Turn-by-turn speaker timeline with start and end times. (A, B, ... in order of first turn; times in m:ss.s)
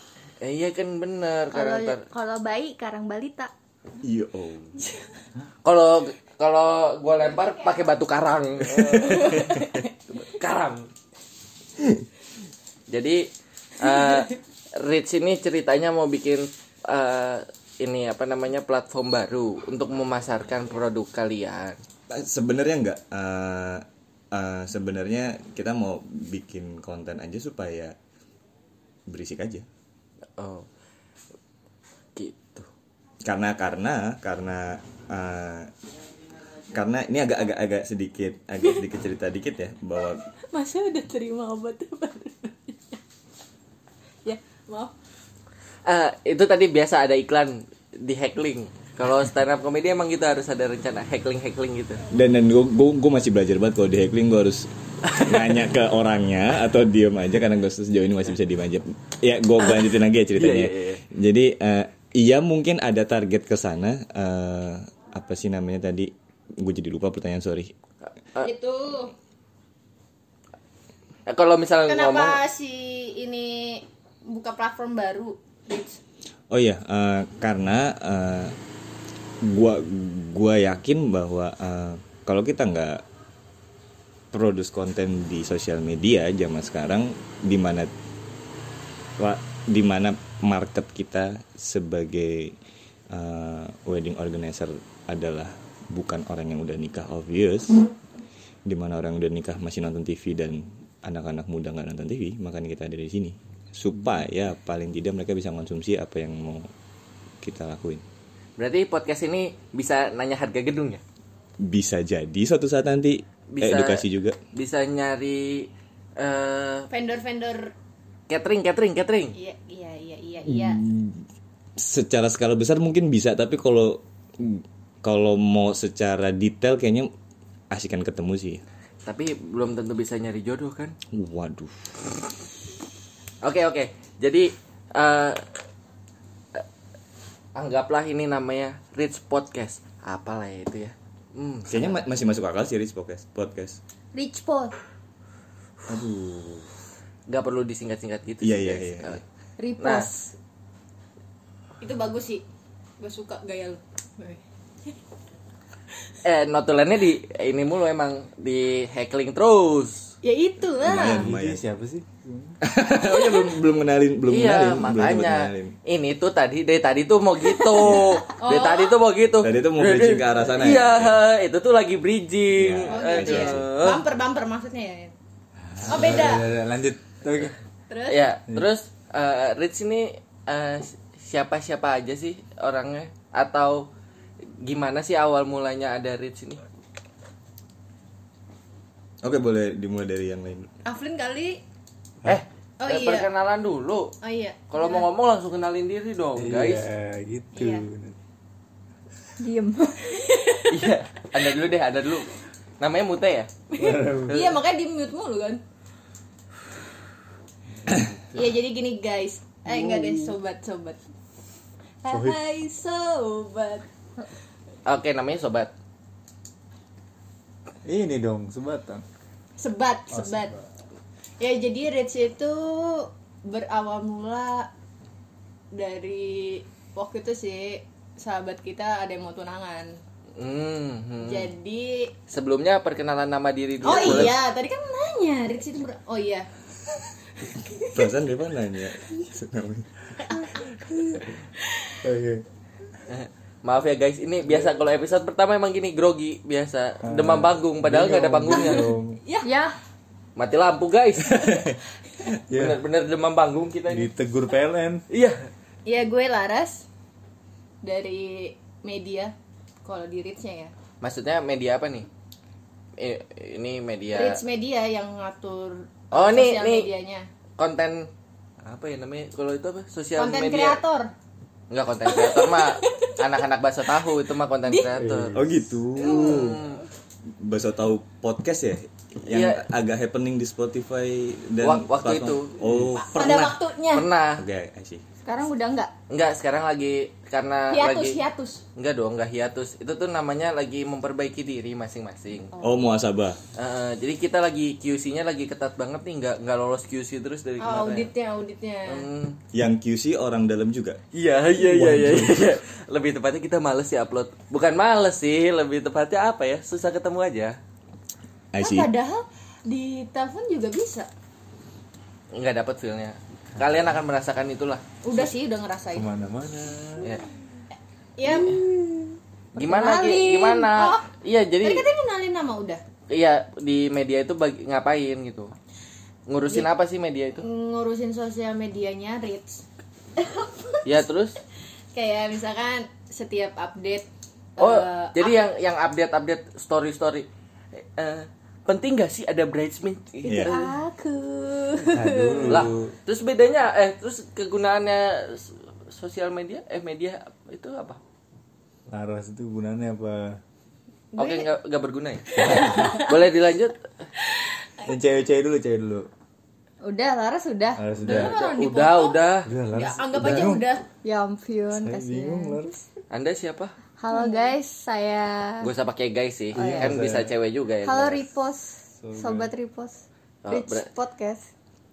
0:00.4-0:02.1 A
0:01.5-0:03.5 B
0:04.0-0:04.8 C
0:05.6-0:10.9 A
0:09.2-0:09.7 D
0:12.9-0:21.8 A
0:22.1-0:28.0 C
0:29.1-0:29.7 C
0:30.4-0:30.7 A
0:32.2-0:32.7 A
0:33.2-0:35.7 C
0:36.7-0:40.2 C
0:40.5-0:43.0 D
0:44.2-0:44.9 D
0:45.9-0:52.0 A
0:52.1-1:07.7 C
0:55.1-0:55.6 A
1:00.3-1:01.0 A
1:08.4-1:09.1 D
1:11.3-1:12.4 A
1:11.9-1:16.0 D
1:16.5-1:18.6 C
1:19.4-1:23.0 C
1:24.3-1:27.9 C
1:29.2-1:32.6 C
1:33.1-1:37.9 C
1:38.7-1:46.7 C
1:47.4-1:48.0 C
1:48.6-1:51.0 A
1:51.6-1:54.4 C
1:53.5-1:56.9 A
1:56.9-1:57.7 D
1:58.3-1:59.4 A
1:59.4-2:00.8 D
2:00.5-2:01.2 C
2:01.8-2:07.1 C
2:07.7-2:08.6 C
2:09.0-2:11.0 A
2:11.1-2:12.0 C
2:13.4-2:15.5 A
2:17.6-2:22.0 A
2:21.7-2:23.8 C
2:24.1-2:24.8 B
2:25.9-2:26.7 C
2:27.3-2:29.2 A
2:28.4-2:29.2 C
2:29.6-2:30.3 B
2:29.8-2:30.1 A
2:31.8-2:32.4 D
2:33.0-2:34.4 D
2:36.2-2:40.1 A
2:40.2-2:41.3 D
2:40.8-2:41.6 C
2:41.0-2:42.6 E
2:42.6-2:45.8 C
2:43.1-2:43.5 D
2:44.3-2:54.0 A
2:48.3-2:49.0 D
2:49.4-2:51.2 C
2:52.5-2:53.7 C
2:52.9-2:55.1 D
2:55.8-2:57.5 E
2:55.9-2:56.5 D
2:57.9-2:58.3 D
2:58.1-3:03.9 A
3:04.6-3:06.6 A
3:09.2-3:10.7 C
3:10.8-3:11.6 D
3:12.2-3:14.1 A
3:12.8-3:13.3 D
3:14.2-3:15.1 D
3:14.7-3:16.9 A
3:16.4-3:18.2 E
3:17.6-3:17.9 D
3:19.4-3:20.1 B
3:20.1-3:20.8 D
3:20.7-3:23.5 A
3:23.7-3:25.6 D
3:23.8-3:24.6 E
3:27.9-3:28.4 E
3:28.3-3:31.0 D
3:29.7-3:30.4 E
3:32.0-3:33.9 D
3:32.1-3:32.4 E
3:34.8-3:35.7 A
3:37.8-3:39.0 E
3:39.6-3:40.6 D
3:40.1-3:40.6 E
3:41.4-3:44.7 D
3:45.7-3:50.0 D
3:50.4-3:51.5 A
3:51.2-3:52.1 D
3:52.3-3:54.4 A
3:53.8-3:56.5 D
3:53.8-3:54.2 C
3:57.4-3:57.9 D
3:57.9-4:00.1 C
4:02.0-4:02.4 E
4:03.1-4:08.9 A
4:07.0-4:09.2 E
4:08.5-4:09.5 D
4:09.4-4:09.8 B
4:10.4-4:11.6 A
4:12.5-4:12.8 E
4:12.5-4:14.1 A
4:13.9-4:15.0 E
4:15.1-4:15.5 A
4:15.9-4:16.9 D
4:17.8-4:20.7 D
4:21.0-4:22.1 A
4:23.0-4:24.4 A
4:24.1-4:27.3 D
4:26.1-4:26.9 A
4:27.6-4:28.1 A
4:28.6-4:30.8 A
4:30.2-4:31.1 D
4:31.7-4:35.4 A
4:32.1-4:33.2 D
4:34.9-4:36.6 E
4:35.3-4:36.3 C
4:36.0-4:36.8 A
4:36.2-4:36.7 D
4:37.4-4:43.6 C
4:39.3-4:39.6 A
4:41.6-4:42.6 A
4:42.6-4:42.9 E
4:43.0-4:44.1 D
4:43.9-4:44.4 A
4:44.4-4:45.0 C
4:45.2-4:45.9 B
4:46.1-4:48.2 A
4:47.7-4:48.6 D
4:48.8-4:52.5 A
4:52.6-4:53.4 C
4:53.6-4:58.1 A
4:57.6-4:59.1 D
4:58.9-4:59.4 A
4:59.5-5:01.0 C
5:01.1-5:07.6 A
5:01.8-5:02.3 E
5:01.8-5:02.2 C
5:08.5-5:08.9 C
5:08.6-5:11.1 D
5:12.3-5:14.8 A
5:15.0-5:16.1 D
5:15.9-5:17.2 E
5:18.2-5:19.1 D
5:18.3-5:18.6 A
5:19.6-5:21.8 A
5:19.6-5:20.5 B
5:19.7-5:21.0 D
5:21.6-5:22.8 D
5:23.1-5:25.5 A
5:26.3-5:27.4 A
5:27.4-5:29.6 D
5:30.2-5:30.9 D
5:30.8-5:31.4 A
5:31.9-5:35.3 D
5:34.6-5:40.7 A
5:40.2-5:40.5 C
5:40.3-5:42.3 D
5:40.4-5:41.1 B
5:41.7-5:42.4 B
5:41.9-5:42.9 E
5:42.4-5:48.0 A
5:48.9-5:50.4 E
5:51.1-5:51.5 D
5:51.2-5:53.9 A
5:52.4-5:53.1 D
5:52.5-5:52.8 E
5:54.4-5:54.8 D
5:54.8-5:56.1 E
5:56.8-5:57.8 B
5:57.8-5:58.3 E
5:58.0-5:59.5 A
5:58.1-6:00.9 D
5:59.4-6:00.7 E
6:01.0-6:02.6 B
6:01.7-6:02.8 E
6:03.1-6:03.8 A
6:04.0-6:05.7 B
6:04.1-6:04.5 D
6:05.6-6:08.3 A
6:06.5-6:07.3 E
6:06.6-6:06.9 B
6:07.8-6:11.5 B
6:09.0-6:09.5 E
6:10.4-6:10.9 A